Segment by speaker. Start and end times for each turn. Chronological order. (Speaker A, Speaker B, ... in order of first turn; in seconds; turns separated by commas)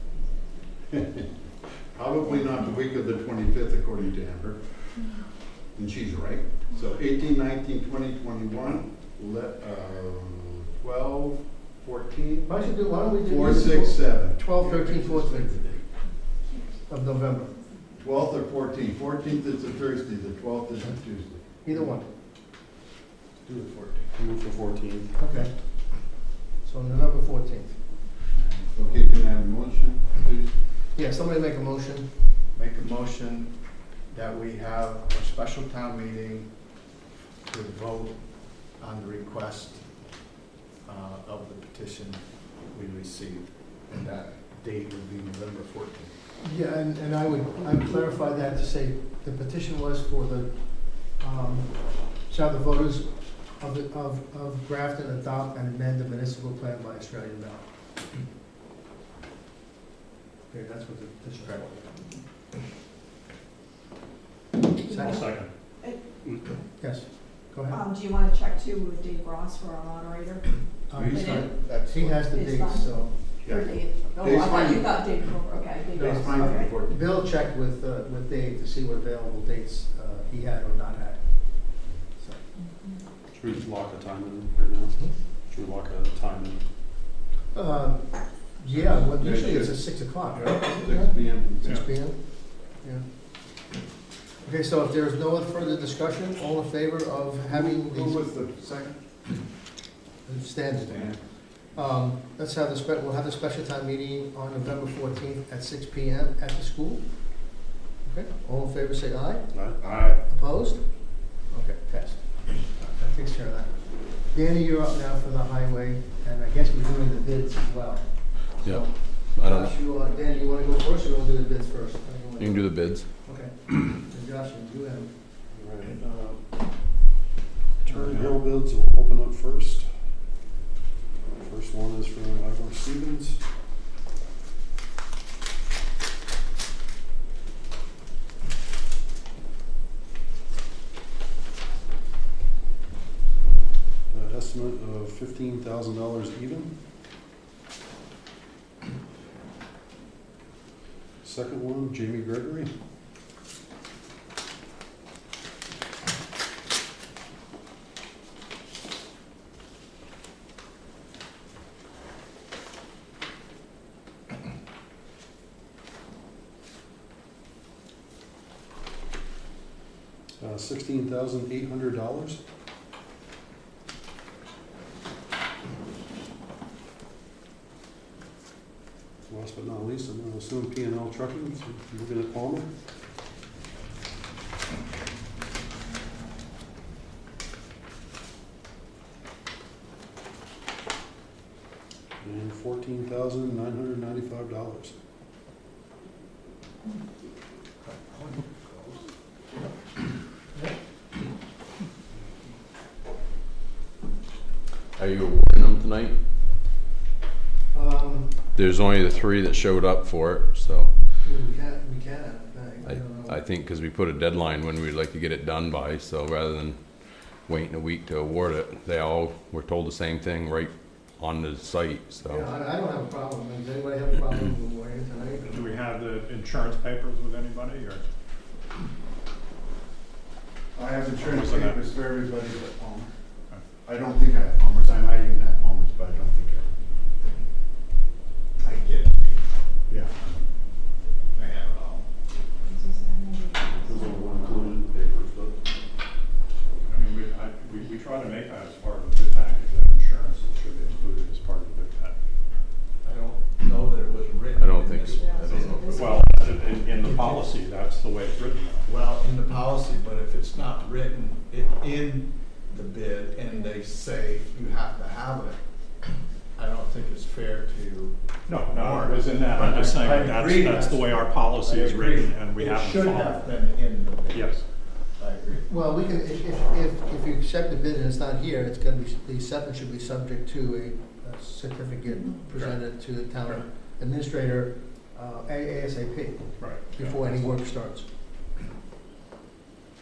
Speaker A: 1.9-4.6, Speaker A: 5.8-12.6, Speaker B: 12.4-15.6, Speaker A: 13.1-15.8, Speaker B: 16.9-17.5, Speaker A: 18.0-21.9, Speaker B: 21.6-22.1, Speaker C: 23.5-24.1, Speaker D: 24.2-25.1, Speaker B: 25.2-25.5, Speaker B: 26.6-27.8, Speaker A: 28.7-30.5, Speaker B: 30.9-32.2, Speaker C: 32.5-33.5, Speaker C: 34.1-36.5, Speaker C: 37.5-38.2, Speaker C: 38.8-39.8, Speaker C: 40.9-46.1, Speaker B: 46.4-51.7, Speaker B: 52.3-57.7, Speaker B: 60.5-62.0, Speaker B: 64.8-65.3, Speaker E: 64.8-65.2, Speaker F: 65.0-65.5, Speaker B: 66.8-67.8, Speaker E: 67.7-70.5, Speaker B: 70.9-73.2, Speaker A: 70.9-71.7, Speaker E: 71.0-71.5, Speaker C: 71.7-72.3, Speaker E: 72.3-72.9, Speaker E: 73.4-76.7, Speaker A: 74.2-75.0, Speaker A: 75.9-77.0, Speaker B: 76.0-81.2, Speaker D: 83.3-85.0, Speaker D: 85.5-86.6, Speaker B: 87.5-92.2, Speaker A: 88.7-91.8, Speaker B: 94.4-98.2, Speaker A: 97.5-99.0, Speaker B: 100.3-101.0, Speaker A: 100.8-101.2, Speaker B: 101.8-107.0, Speaker B: 108.0-109.5, Speaker D: 109.5-109.8, Speaker F: 109.8-110.2, Speaker B: 110.3-110.8, Speaker B: 111.4-113.7, Speaker B: 114.3-122.7, Speaker G: 118.6-119.8, Speaker G: 122.4-123.1, Speaker B: 123.2-125.1, Speaker D: 125.5-126.4, Speaker D: 127.8-129.9, Speaker D: 131.4-133.4, Speaker D: 144.1-146.8, Speaker D: 151.2-152.7, Speaker D: 170.4-172.4, Speaker D: 179.3-182.7, Speaker D: 192.2-194.9, Speaker C: 197.8-199.0, Speaker G: 205.0-206.2, Speaker B: 207.7-208.4, Speaker G: 208.6-210.9, Speaker B: 211.2-213.4, Speaker G: 212.9-222.5, Speaker B: 222.3-225.7, Speaker F: 225.5-228.0, Speaker A: 230.8-233.1, Speaker F: 231.2-231.8, Speaker A: 233.8-236.7, Speaker C: 238.6-239.5, Speaker A: 239.9-240.3, Speaker C: 241.3-242.1, Speaker E: 242.4-244.7, Speaker D: 243.8-245.6, Speaker F: 246.9-252.2, Speaker C: 253.0-255.9, Speaker G: 254.6-256.1, Speaker E: 255.1-256.9, Speaker F: 256.0-258.9, Speaker C: 258.9-265.6, Speaker C: 266.6-274.6, Speaker F: 268.5-273.4, Speaker F: 274.3-274.6, Speaker C: 275.2-275.7, Speaker B: 275.7-288.1, Speaker F: 286.6-287.2